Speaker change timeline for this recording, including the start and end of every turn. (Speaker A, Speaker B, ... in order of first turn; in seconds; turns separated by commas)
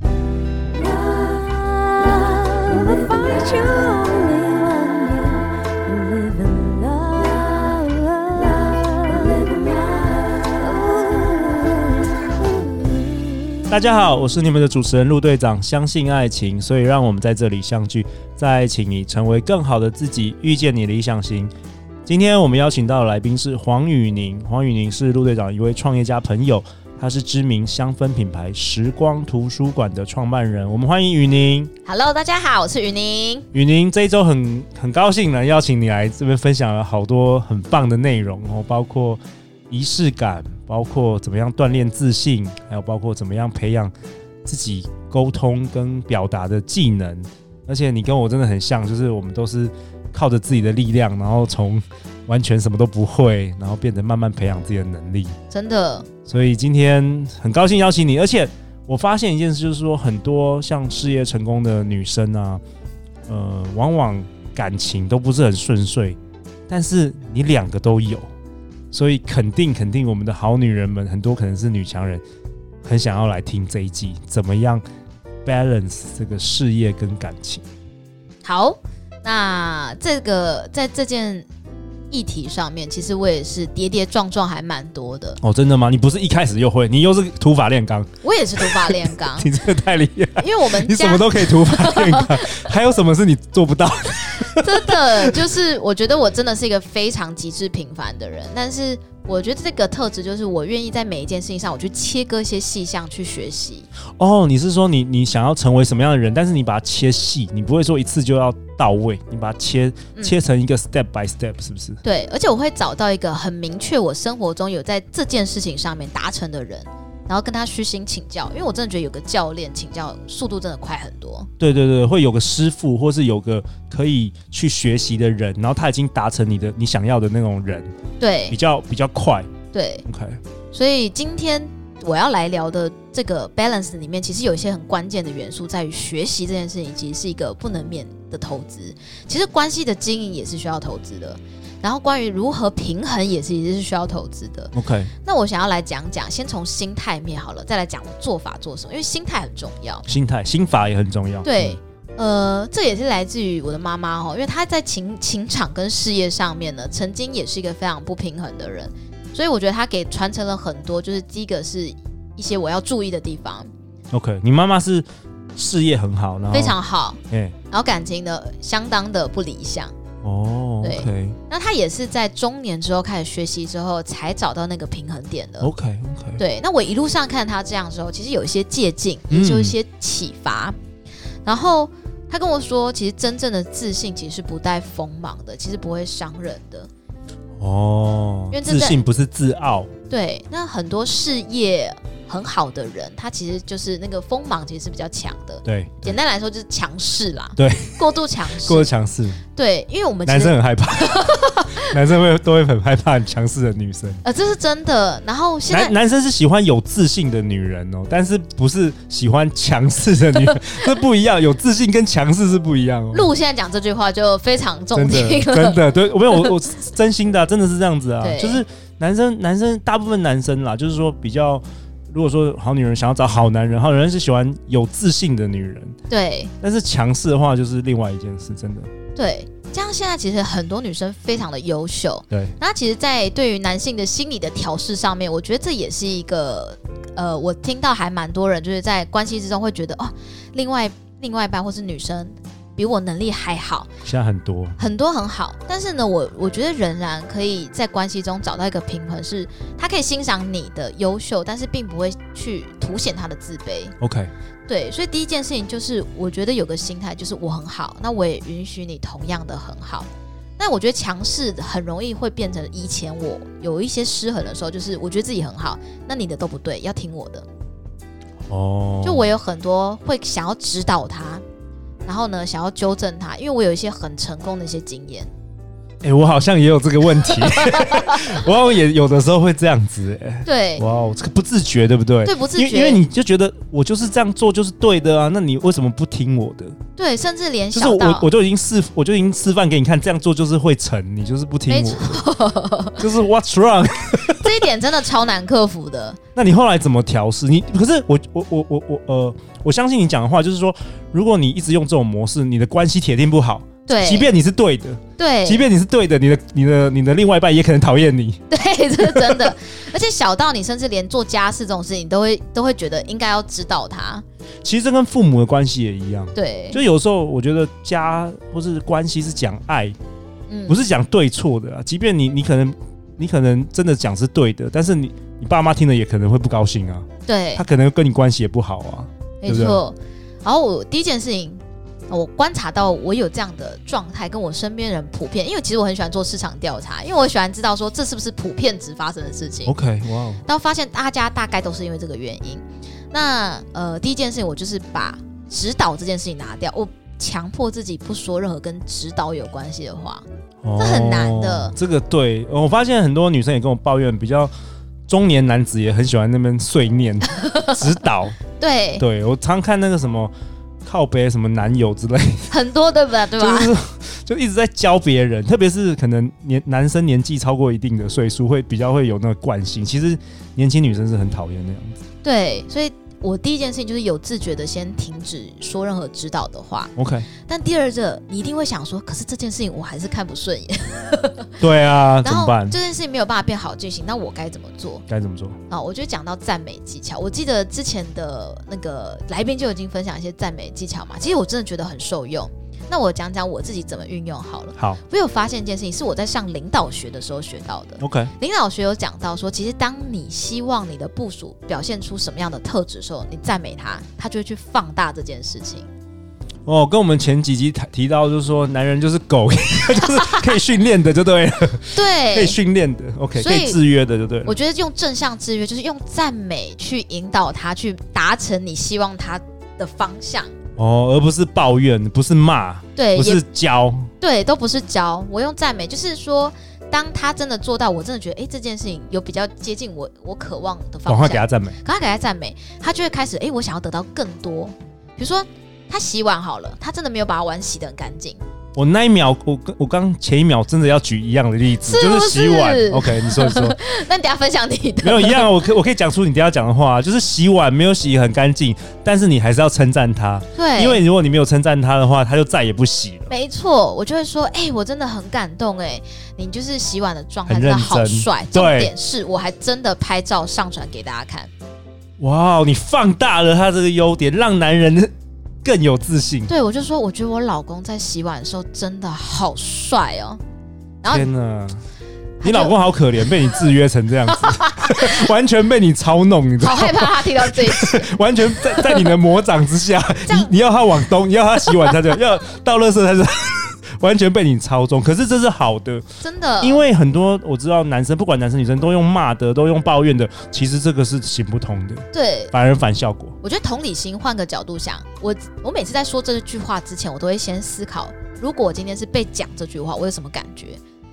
Speaker A: 2.5-5.0, Speaker B: 2.8-4.4, Speaker B: 6.3-7.2, Speaker A: 6.9-8.3, Speaker B: 8.4-9.9, Speaker C: 13.7-21.5, Speaker C: 22.1-31.7, Speaker A: 31.8-33.5, Speaker C: 33.5-43.9, Speaker C: 44.4-55.4, Speaker A: 55.5-56.1, Speaker C: 56.2-62.6, Speaker C: 63.3-68.3, Speaker C: 68.9-72.2, Speaker C: 72.8-74.8, Speaker C: 75.4-77.6, Speaker A: 78.4-81.5, Speaker A: 82.1-85.4, Speaker C: 85.4-95.4, Speaker A: 88.2-89.5, Speaker A: 90.4-92.7, Speaker A: 94.5-103.9, Speaker C: 104.2-112.0, Speaker A: 112.0-121.5, Speaker C: 121.6-127.9, Speaker A: 128.2-128.6, Speaker C: 128.5-129.5, Speaker A: 129.7-130.0, Speaker C: 130.0-130.4, Speaker A: 130.7-144.7, Speaker C: 144.7-145.1, Speaker A: 145.2-150.1, Speaker C: 150.1-151.8, Speaker A: 151.4-163.7, Speaker C: 164.1-166.8, Speaker A: 166.5-169.9, Speaker C: 167.3-167.6, Speaker C: 170.2-171.4, Speaker A: 170.8-175.7, Speaker C: 175.6-176.4, Speaker A: 176.4-180.8, Speaker C: 179.3-179.8, Speaker A: 181.4-186.9, Speaker C: 187.6-189.9, Speaker A: 188.5-189.0, Speaker A: 190.1-198.9, Speaker C: 195.6-196.2, Speaker C: 197.6-198.0, Speaker C: 198.6-199.4, Speaker A: 199.5-201.9, Speaker C: 200.2-204.2, Speaker A: 204.2-205.9, Speaker C: 205.7-213.3, Speaker A: 210.4-210.8, Speaker A: 213.1-216.5, Speaker C: 214.9-225.9, Speaker A: 218.2-218.6, Speaker A: 226.1-226.5, Speaker C: 226.6-228.9, Speaker A: 229.2-243.9, Speaker C: 244.0-244.8, Speaker A: 244.8-253.9, Speaker C: 254.0-254.3, Speaker A: 254.7-267.4, Speaker C: 268.5-269.2, Speaker A: 269.0-271.4, Speaker A: 272.1-275.3, Speaker C: 276.0-286.8, Speaker A: 277.2-278.4, Speaker A: 280.4-280.8, Speaker A: 282.2-283.0, Speaker A: 287.0-288.3, Speaker C: 287.7-292.2, Speaker A: 291.7-293.1, Speaker C: 293.0-294.6, Speaker A: 294.3-296.2, Speaker C: 296.3-308.4, Speaker A: 303.9-304.3, Speaker A: 305.2-305.7, Speaker A: 308.5-314.2, Speaker C: 309.1-309.5, Speaker C: 314.6-319.9, Speaker A: 316.3-316.8, Speaker A: 320.5-320.8, Speaker C: 320.7-329.8, Speaker A: 327.2-327.6, Speaker A: 329.4-339.7, Speaker C: 339.6-340.4, Speaker A: 340.4-351.7, Speaker C: 350.6-354.5, Speaker C: 355.1-358.4, Speaker A: 357.3-357.8, Speaker A: 358.5-359.0, Speaker C: 359.0-360.3, Speaker C: 360.8-362.5, Speaker A: 362.5-363.7, Speaker C: 363.4-372.0, Speaker A: 372.2-381.6, Speaker C: 376.9-377.3, Speaker C: 381.6-382.8, Speaker A: 382.2-385.0, Speaker C: 385.1-385.6, Speaker A: 385.7-405.9, Speaker C: 398.0-398.3, Speaker C: 406.6-414.6, Speaker A: 411.9-412.6, Speaker A: 413.3-413.8, Speaker A: 414.4-420.5, Speaker C: 420.8-424.1, Speaker A: 422.9-423.4, Speaker A: 424.2-438.4, Speaker C: 431.0-431.8, Speaker C: 438.8-443.8, Speaker A: 441.8-445.5, Speaker C: 445.0-453.3, Speaker A: 450.5-451.0, Speaker A: 453.3-461.5, Speaker C: 457.5-458.9, Speaker C: 462.2-465.1, Speaker C: 465.6-466.5, Speaker A: 466.5-470.4, Speaker C: 471.1-471.8, Speaker A: 472.4-472.8, Speaker C: 472.4-486.1, Speaker A: 474.3-475.3, Speaker A: 476.6-479.1, Speaker A: 480.2-480.5, Speaker A: 486.2-486.8, Speaker C: 486.6-493.4, Speaker A: 492.1-492.5, Speaker A: 493.4-500.8